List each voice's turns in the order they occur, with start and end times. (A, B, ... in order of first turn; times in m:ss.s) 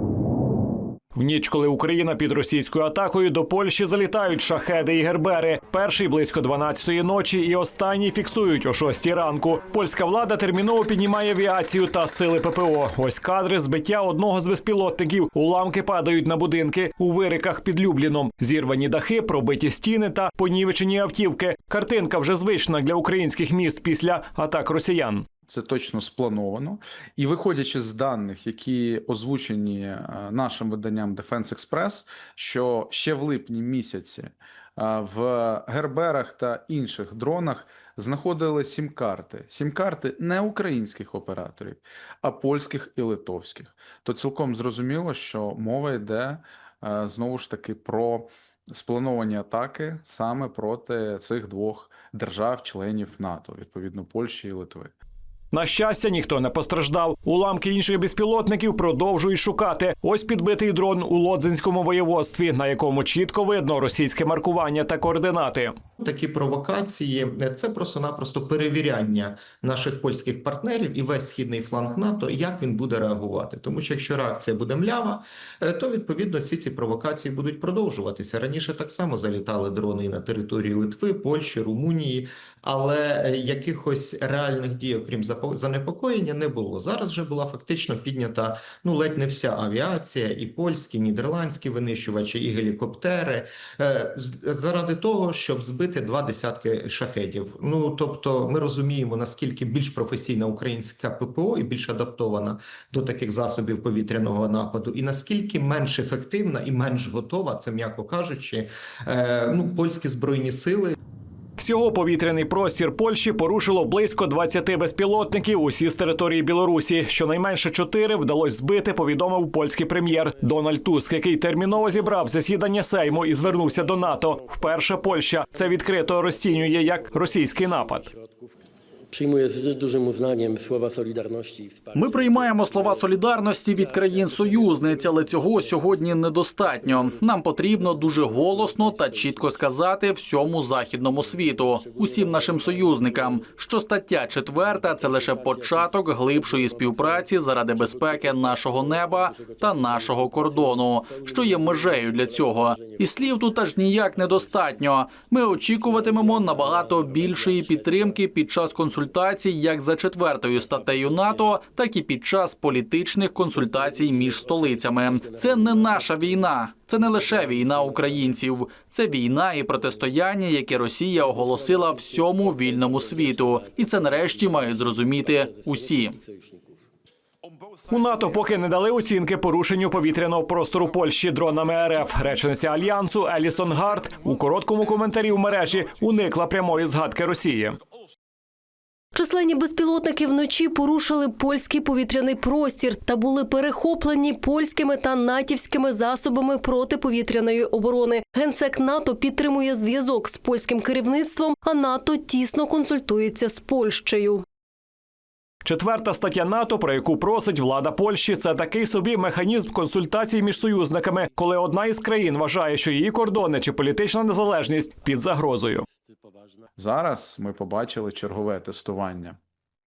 0:01.1-0:25.2 A
0:25.5-0:54.9 B
0:55.5-1:05.8 A
1:06.0-1:50.9 C
1:51.6-2:08.1 A
2:01.9-2:02.2 D
2:03.0-2:08.6 D
2:09.1-2:19.8 D
2:11.9-2:56.2 E
2:21.0-2:23.6 D
2:24.5-2:39.3 D
2:40.4-2:41.6 D
2:43.5-2:48.4 D
2:49.7-2:50.1 D
2:51.0-2:56.8 D
2:57.9-3:07.8 A
3:09.1-3:24.4 F
3:25.6-3:35.8 A
3:36.1-3:36.6 D
3:36.8-3:39.4 B